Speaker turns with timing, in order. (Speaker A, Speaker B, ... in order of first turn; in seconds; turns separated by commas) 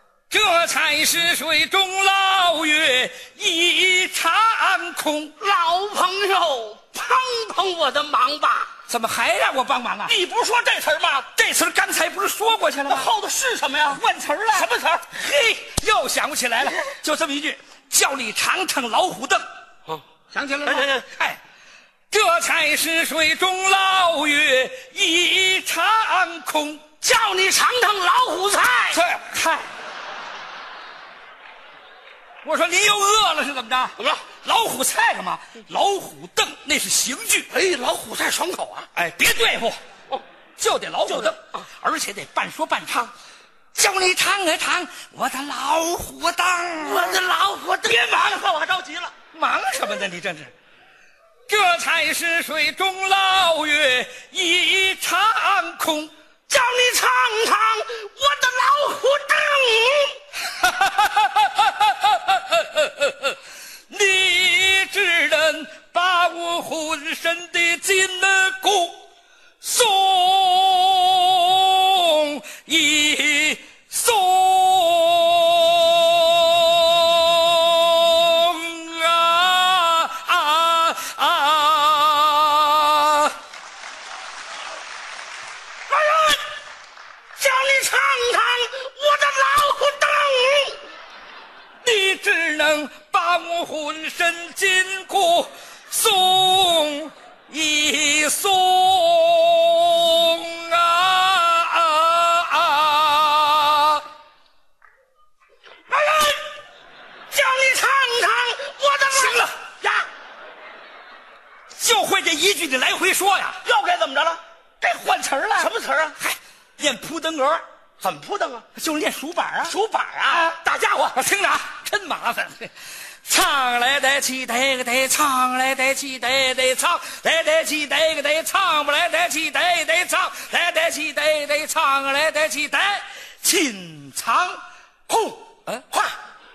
Speaker A: 0.3-5.3, Speaker B: 5.4-8.7, Speaker A: 8.9-10.1, Speaker B: 10.1-11.3, Speaker A: 11.3-13.1, Speaker B: 12.9-15.1, Speaker A: 13.9-19.4, Speaker A: 20.3-21.4, Speaker B: 20.6-21.0, Speaker A: 22.1-26.9, Speaker B: 27.0-29.0, Speaker A: 28.9-29.7, Speaker A: 32.4-37.5, Speaker B: 34.0-34.3, Speaker B: 37.5-38.9, Speaker A: 38.9-39.8, Speaker A: 40.6-43.1, Speaker B: 41.1-41.6, Speaker A: 43.7-47.2, Speaker B: 46.8-49.1, Speaker A: 49.3-50.5, Speaker A: 51.5-56.1, Speaker B: 56.5-60.2, Speaker A: 60.5-63.4, Speaker A: 63.9-69.0, Speaker A: 69.6-83.3, Speaker B: 85.9-86.5, Speaker B: 87.4-90.8, Speaker A: 91.8-104.0, Speaker B: 105.9-106.5, Speaker B: 107.3-109.7, Speaker A: 109.1-109.5, Speaker A: 111.7-113.6, Speaker B: 113.6-114.4, Speaker A: 114.8-117.6, Speaker B: 115.6-116.2, Speaker B: 118.0-118.6, Speaker A: 118.7-119.8, Speaker B: 119.7-121.2, Speaker A: 120.3-120.6, Speaker A: 121.1-122.7, Speaker A: 123.2-134.6, Speaker B: 135.1-135.4